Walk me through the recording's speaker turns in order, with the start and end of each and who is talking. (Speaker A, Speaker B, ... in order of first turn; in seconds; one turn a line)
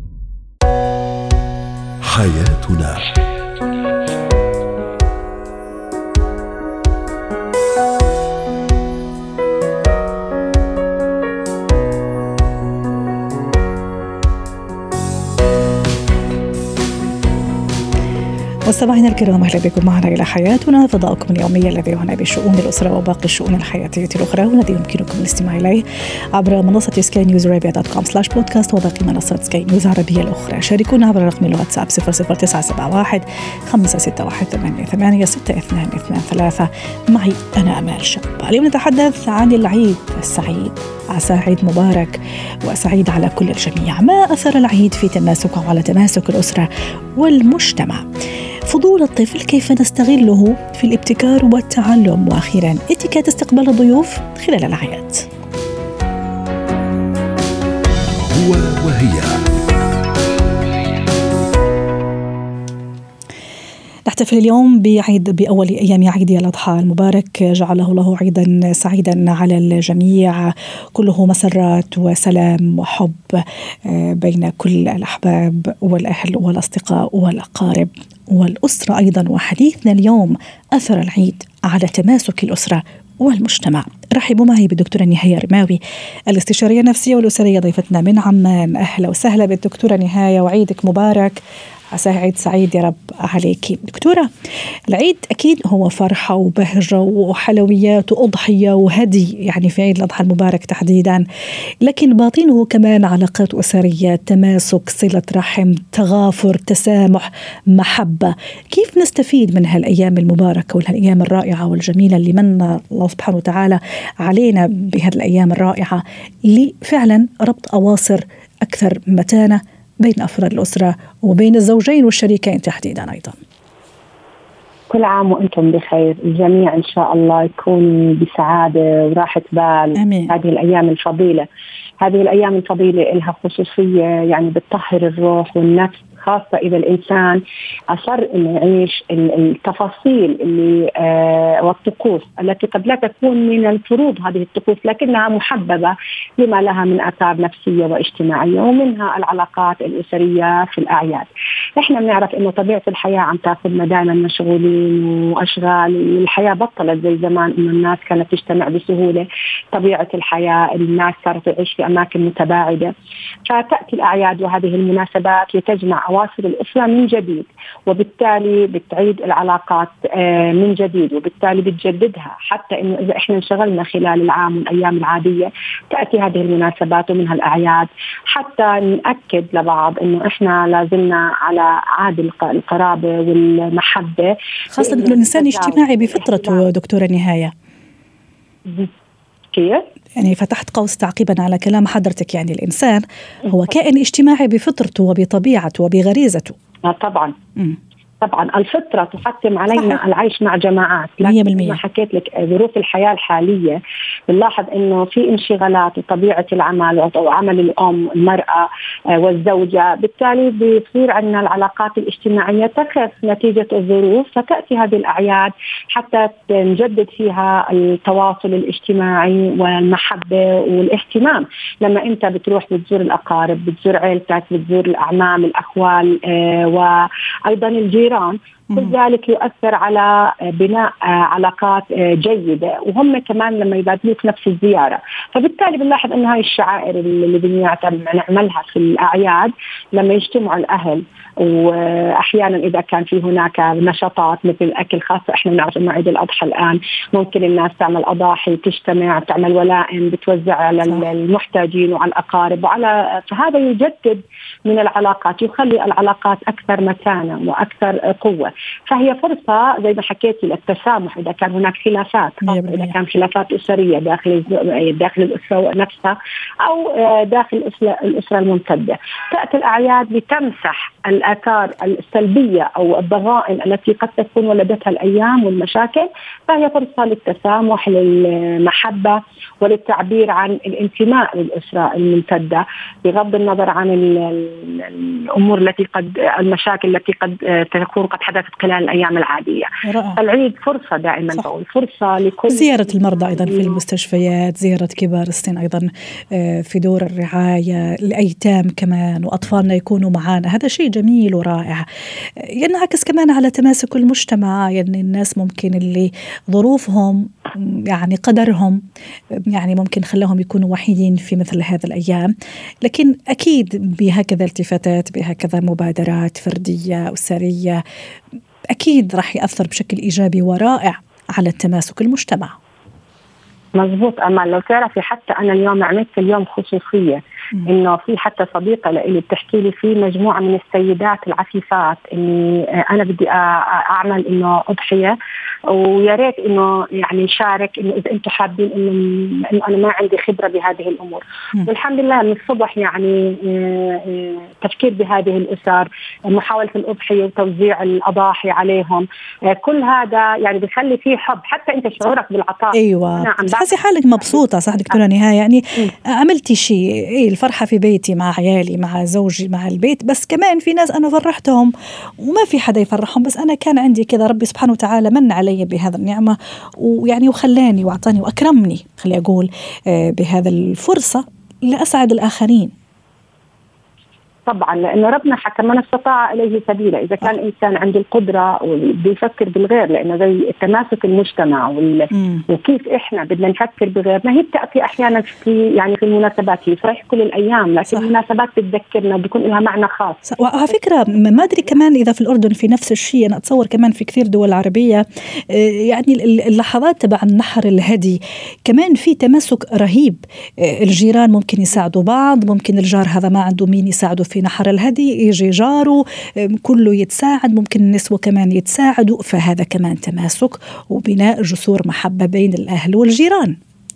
Speaker A: 2.0-3.1
Speaker B: 18.7-25.8
Speaker B: 26.3-48.1
Speaker B: 48.7-55.3
Speaker A: 58.1-59.5
Speaker B: 64.0-94.3
Speaker B: 94.9-101.2
Speaker B: 101.8-123.4
Speaker C: 124.9-131.5
Speaker B: 130.0-130.3
Speaker C: 132.0-162.9
Speaker C: 163.5-186.7
Speaker B: 184.7-187.5
Speaker C: 188.7-188.9
Speaker C: 189.5-189.8
Speaker B: 190.2-196.5
Speaker C: 196.8-197.3
Speaker C: 198.2-293.8
Speaker B: 201.2-201.8
Speaker B: 262.4-262.9
Speaker B: 289.8-290.2
Speaker B: 292.5-317.8
Speaker B: 318.7-322.5
Speaker C: 323.7-335.1
Speaker C: 335.7-353.7
Speaker B: 352.7-372.7
Speaker C: 374.5-390.2
Speaker B: 382.1-382.4
Speaker B: 390.2-413.6